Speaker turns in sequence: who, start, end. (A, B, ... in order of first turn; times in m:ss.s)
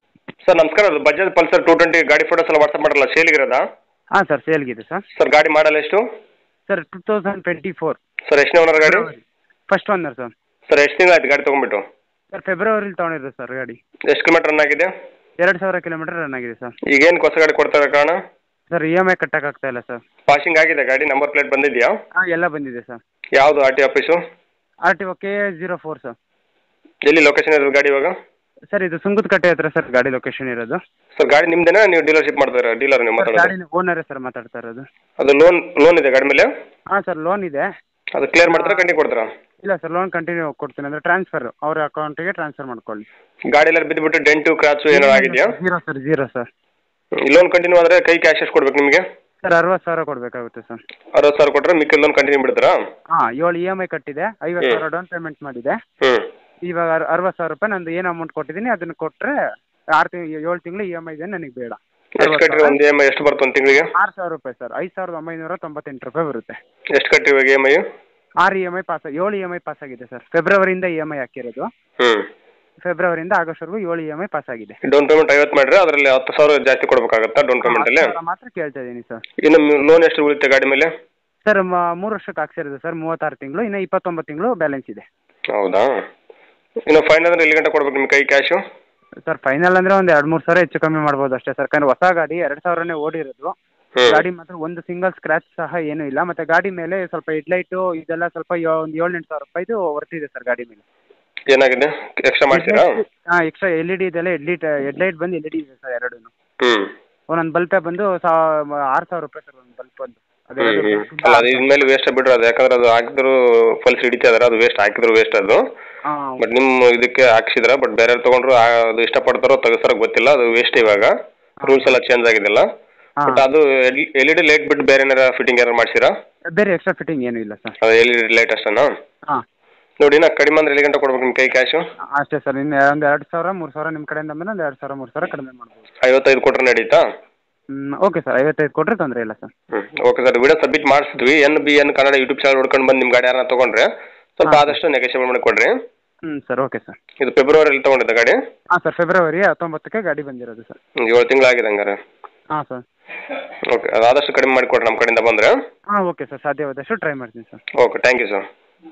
0:00.5-0:03.6 A
0:04.1-0:05.0 B
0:05.2-0:06.0 A
0:06.7-0:08.0 B
0:08.3-0:09.1 A
0:08.8-0:10.3 B
0:10.7-0:11.8 A
0:12.3-0:13.8 B
0:14.1-0:14.9 A
0:15.4-0:16.7 B
0:16.9-0:18.2 A
0:18.7-0:20.0 B
0:20.3-0:21.9 A
0:22.2-0:23.0 B
0:23.4-0:24.2 A
0:24.8-0:26.1 B
0:27.0-0:28.1 A
0:28.7-0:30.8 B
0:31.2-0:33.5 A
0:33.2-0:34.8 B
0:35.2-0:36.5 A
0:36.9-0:37.6 B
0:38.2-0:39.3 A
0:38.5-0:38.9 B
0:39.6-0:43.1 B
0:43.5-0:45.5 A
0:44.9-0:46.5 B
0:47.3-0:49.0 A
0:49.4-0:50.8 B
0:51.2-0:52.8 A
0:53.1-0:55.8 B
0:56.6-0:59.4 B
0:59.9-1:02.8 B
1:02.2-1:03.9 A
1:03.9-1:06.6 B
1:07.0-1:07.8 A
1:08.4-1:11.7 B
1:12.0-1:12.2 A
1:12.8-1:14.8 B
1:14.8-1:18.1 A
1:17.6-1:19.2 B
1:19.4-1:20.9 A
1:21.4-1:25.0 B
1:25.5-1:25.9 A
1:26.9-1:28.6 A
1:29.2-1:33.5 B
1:34.0-1:34.2 A
1:34.1-1:40.8 B
1:41.5-1:42.9 A
1:42.5-1:46.3 B
1:46.6-1:46.9 A
1:47.3-1:51.9 B
1:50.6-1:55.6 A
1:56.0-1:56.4 B
1:56.4-2:01.1 A
2:01.6-2:01.9 B
2:01.6-2:02.7 A
2:03.3-2:06.1 A
2:06.5-2:07.7 B
2:07.8-2:08.9 A
2:10.0-2:11.8 A
2:12.1-2:15.8 B
2:16.0-2:17.0 A
2:17.7-2:19.5 B
2:19.7-2:25.7 A
2:24.4-2:24.8 B
2:26.2-2:27.0 B
2:27.2-2:28.4 A
2:28.7-2:30.8 B
2:31.0-2:32.0 A
2:32.5-2:32.8 B
2:33.7-2:35.6 A
2:35.9-2:37.6 B
2:37.8-2:38.4 A